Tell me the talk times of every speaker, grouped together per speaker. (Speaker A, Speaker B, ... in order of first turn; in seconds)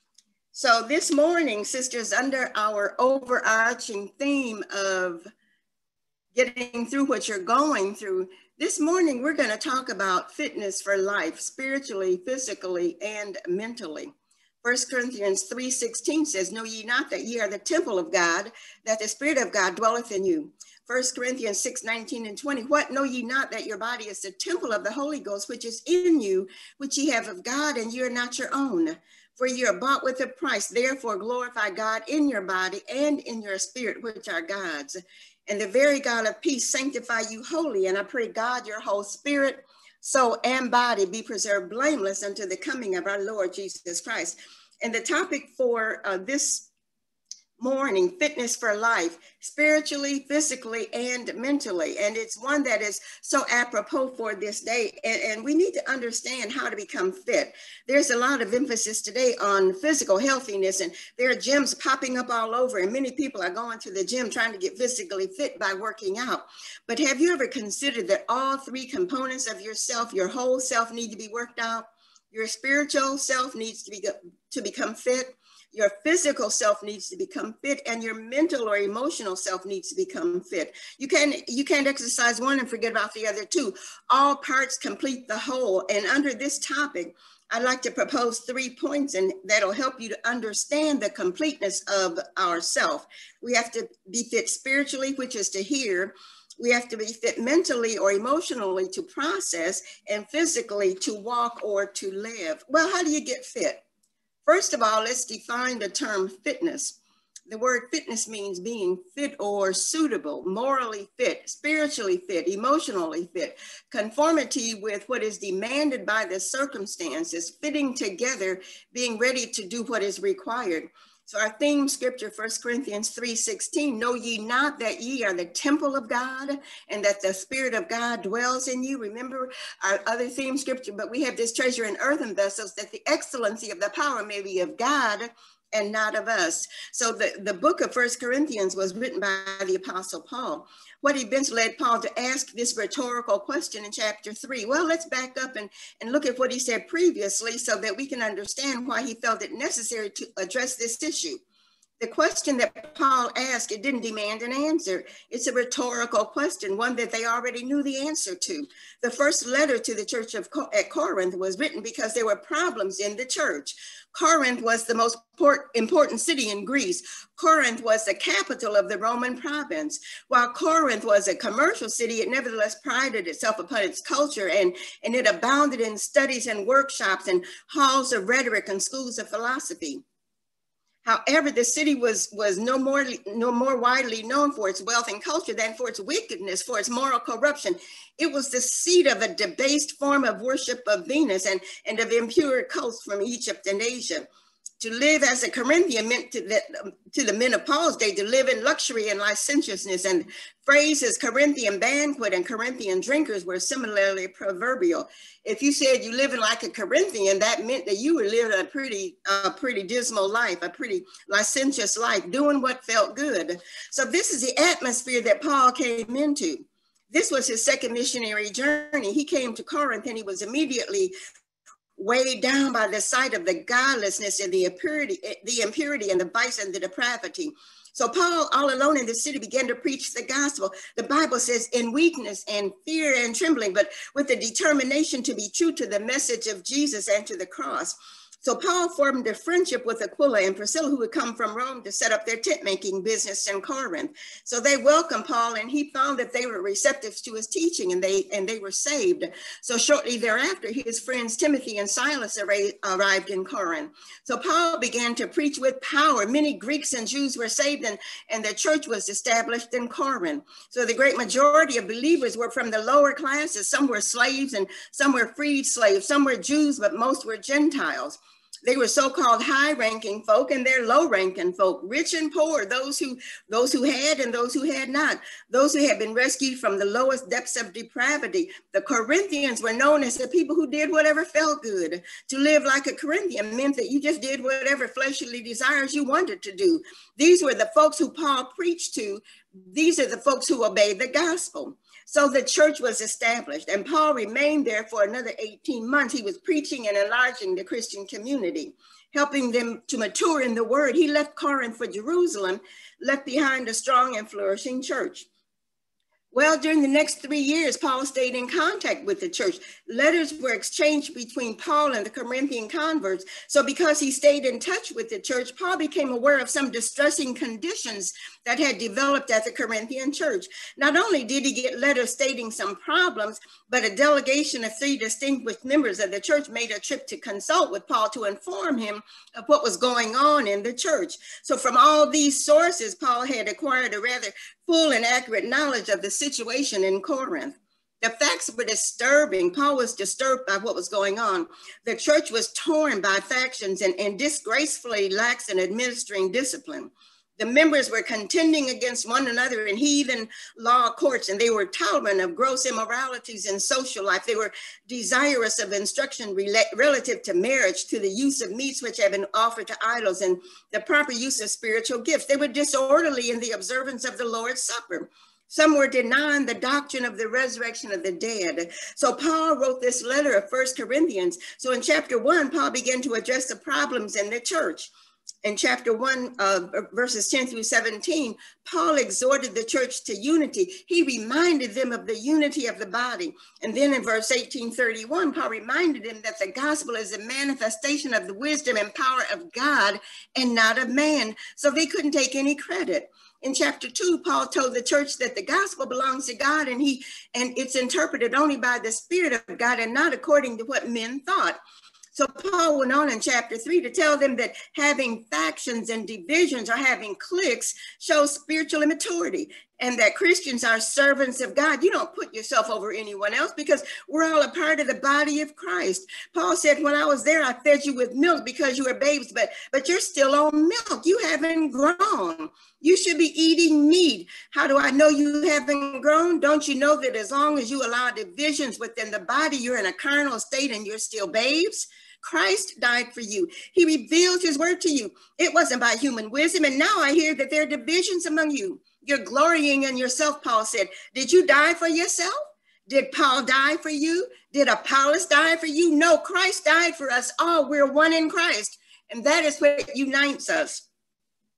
Speaker A: 0.5-5.3, 6.3-14.1, 14.6-46.7, 47.6-103.8, 104.5-107.0, 107.5-151.4, 152.0-180.0, 181.1-194.3, 194.8-221.1, 222.0-305.3, 306.3-374.9, 375.4-401.6, 402.1-450.9